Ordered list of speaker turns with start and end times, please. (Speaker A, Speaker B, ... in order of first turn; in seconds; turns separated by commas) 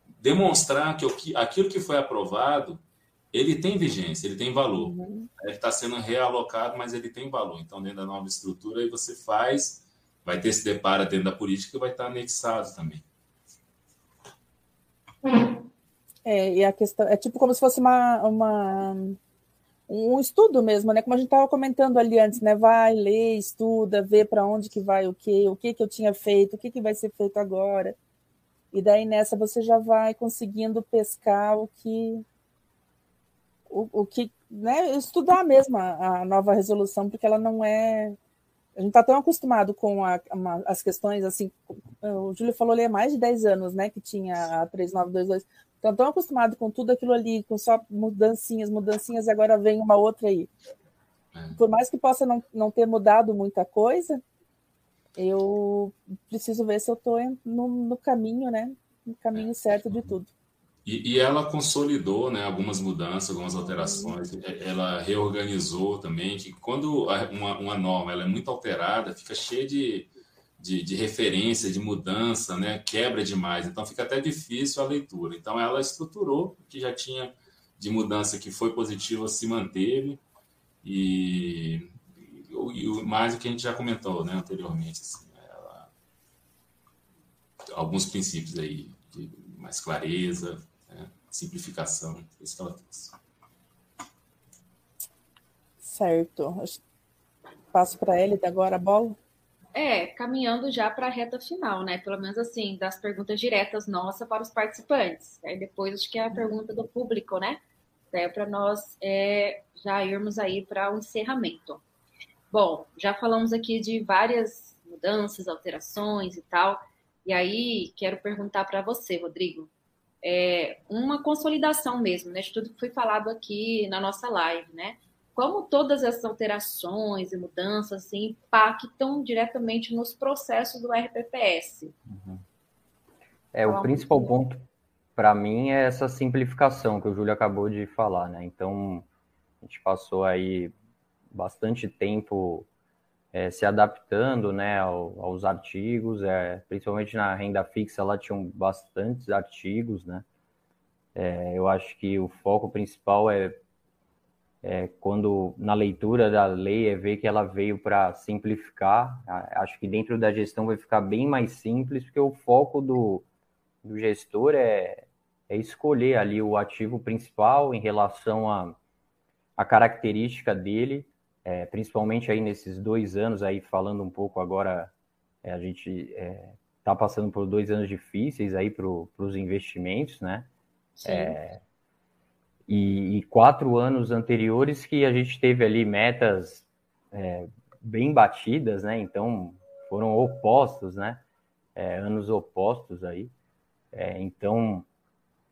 Speaker A: 0.2-2.8, Speaker A: 3.3-13.0, Speaker B: 4.8-5.3, Speaker B: 16.2-19.2, Speaker B: 19.9-28.0, Speaker B: 28.7-32.2, Speaker B: 33.7-38.2, Speaker B: 38.8-50.5, Speaker B: 51.6-54.2, Speaker B: 55.2-60.3, Speaker A: 60.9-80.2, Speaker B: 63.8-64.2, Speaker A: 80.8-85.9, Speaker A: 87.7-93.2, Speaker B: 95.8-96.8, Speaker B: 97.7-99.2, Speaker C: 99.8-107.6, Speaker C: 108.1-111.8, Speaker C: 112.5-119.7, Speaker C: 120.2-131.9, Speaker D: 132.1-132.4, Speaker D: 133.5-139.1, Speaker C: 133.7-134.3, Speaker D: 139.6-140.7, Speaker D: 141.3-142.7, Speaker D: 143.3-150.2, Speaker D: 151.2-153.6, Speaker D: 154.6-163.3, Speaker D: 163.8-168.8, Speaker D: 169.6-174.9, Speaker D: 175.4-180.5, Speaker C: 181.0-181.4, Speaker D: 181.0-181.6, Speaker D: 182.7-191.2, Speaker D: 191.8-193.3, Speaker D: 193.9-194.9